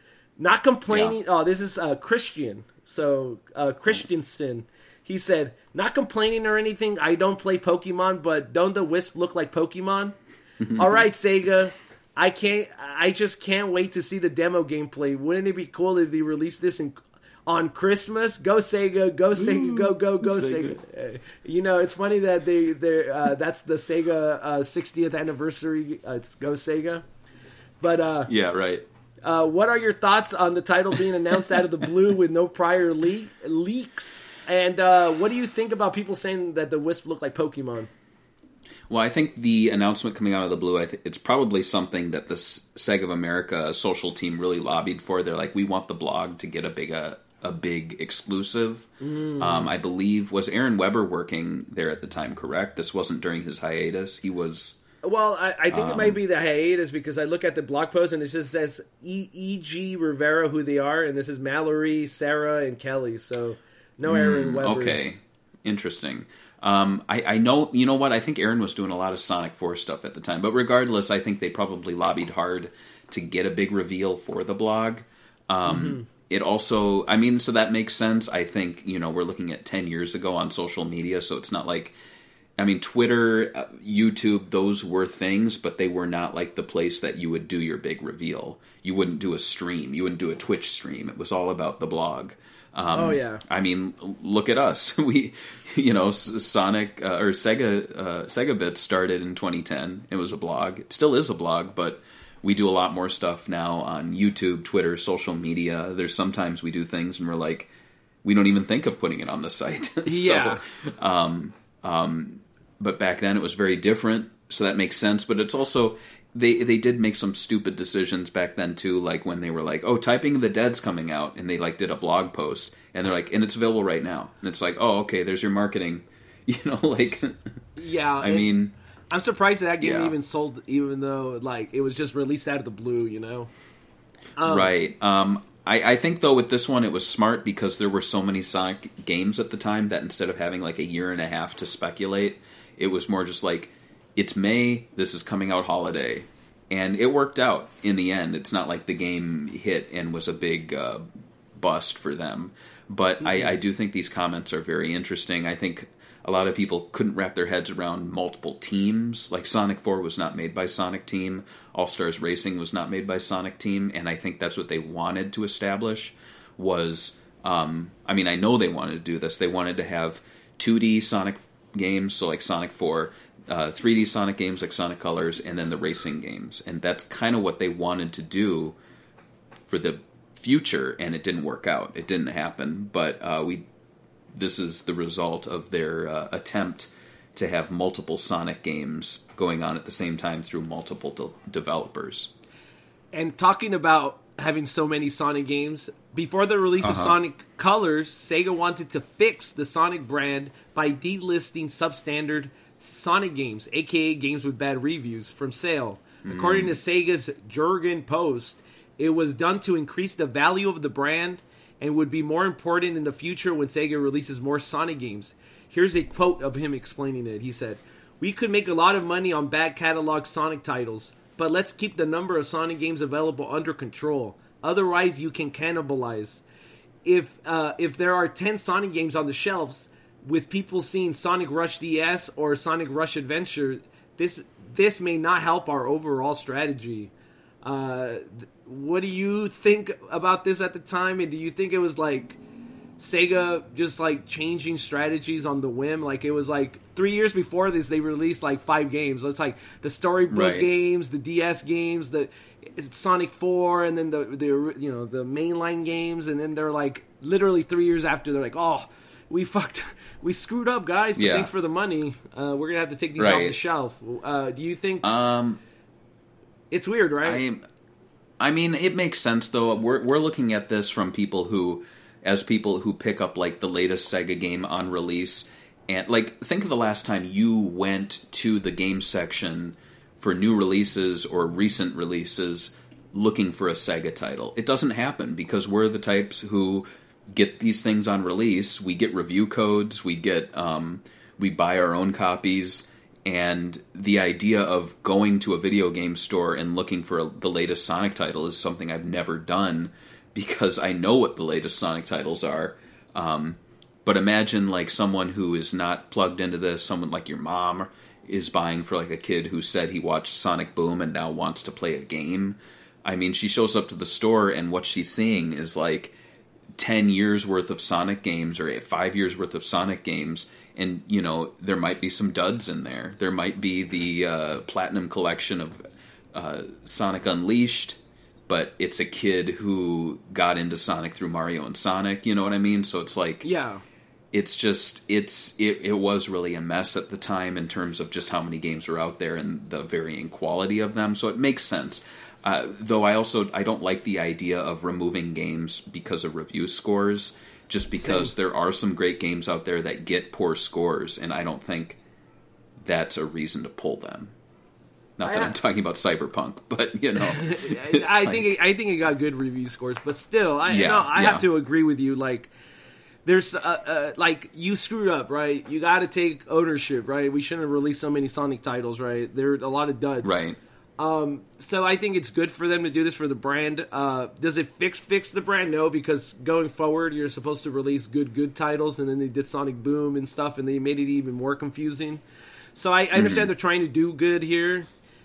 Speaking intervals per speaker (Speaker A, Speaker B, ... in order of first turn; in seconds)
Speaker A: 0.4-10.1, 10.8-27.0, 27.8-28.3, 29.2-37.9, 49.0-49.7, 55.0-65.0, 75.7-76.0, 92.9-93.4, 110.0-110.6, 127.8-128.5, 129.1-133.5, 134.4-134.7, 153.2-153.5, 193.1-226.4, 227.0-237.1, 237.6-242.4, 243.0-265.1, 266.7-267.4, 333.4-333.8, 347.9-348.3, 355.2-355.6, 357.3-362.5, 363.2-370.4, 371.0-382.2, 382.8-384.9
Speaker B: 0.9-1.1, 10.6-11.0, 19.4-20.8, 28.3-28.9, 38.9-54.8, 55.7-56.2, 64.0-81.9, 82.6-107.7, 108.2-127.4, 128.2-128.7, 129.8-130.2, 134.4-178.8, 179.7-183.7, 184.3-192.3, 196.8-197.2, 206.2-206.7, 250.3-250.7, 261.1-261.5, 263.2-263.6, 265.0-265.6, 267.2-267.6, 268.4-316.1, 316.8-325.8, 326.3-333.5, 334.3-352.0, 352.8-354.3, 355.2-358.5, 360.7-361.5, 370.2-370.6, 383.1-383.5